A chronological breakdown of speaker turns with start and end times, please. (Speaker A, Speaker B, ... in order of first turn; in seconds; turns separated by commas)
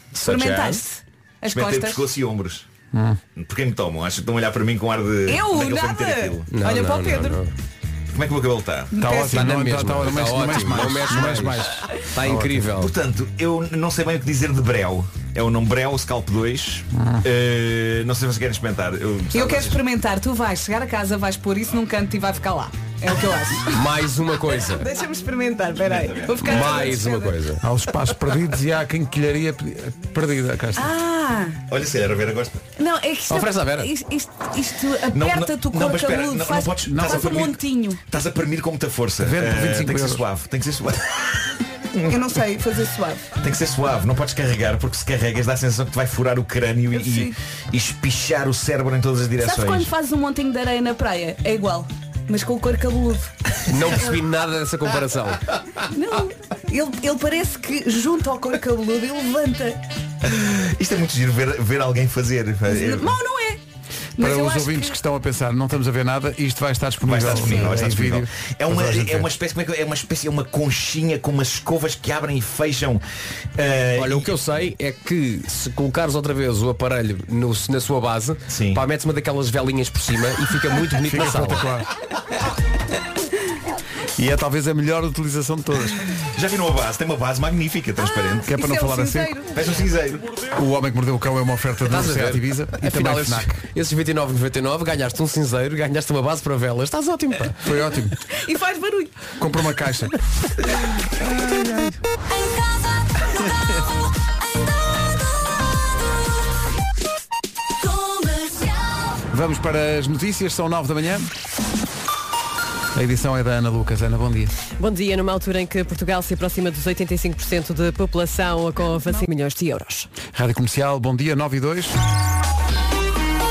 Speaker A: 0.2-0.8, Speaker B: 0.2-2.0, Speaker C: 1.5-2.6, Speaker D: 2.9-3.2, Speaker C: 3.4-6.5, Speaker B: 5.3-7.4, Speaker A: 6.5-7.5, Speaker C: 8.1-8.9, Speaker B: 8.9-9.5, Speaker D: 9.0-12.7, Speaker A: 9.2-12.9, Speaker C: 12.7-19.8, Speaker D: 16.9-17.2, Speaker B: 19.3-23.8, Speaker A: 23.7-24.9, Speaker B: 24.5-27.3, Speaker C: 25.8-27.0, Speaker A: 26.4-27.6, Speaker D: 27.6-30.9, Speaker B: 30.8-31.6, Speaker C: 31.7-32.6, Speaker B: 32.8-38.0, Speaker A: 33.3-33.9, Speaker C: 35.1-42.3, Speaker D: 36.9-37.4, Speaker D: 39.2-40.2, Speaker B: 42.1-43.3, Speaker C: 43.4-49.9, Speaker B: 46.9-47.3, Speaker B: 49.4-53.3, Speaker A: 53.7-55.4, Speaker B: 55.9-59.8, Speaker C: 60.2-63.2, Speaker B: 62.7-63.6, Speaker B: 64.2-65.0, Speaker D: 64.2-69.3, Speaker C: 67.0-73.0, Speaker C: 73.5-74.3, Speaker A: 74.0-81.7, Speaker C: 78.5-78.8, Speaker D: 81.0-81.9, Speaker D: 84.2-86.0, Speaker C: 86.3-88.5, Speaker B: 88.0-89.6, Speaker D: 88.5-89.3, Speaker C: 89.5-90.4, Speaker D: 90.5-93.6, Speaker A: 91.9-97.6, Speaker D: 97.6-98.2, Speaker B: 98.3-99.1, Speaker D: 99.4-100.1, Speaker D: 109.3-111.3, Speaker D: 112.9-114.5, Speaker E: 114.8-120.1, Speaker D: 120.3-121.9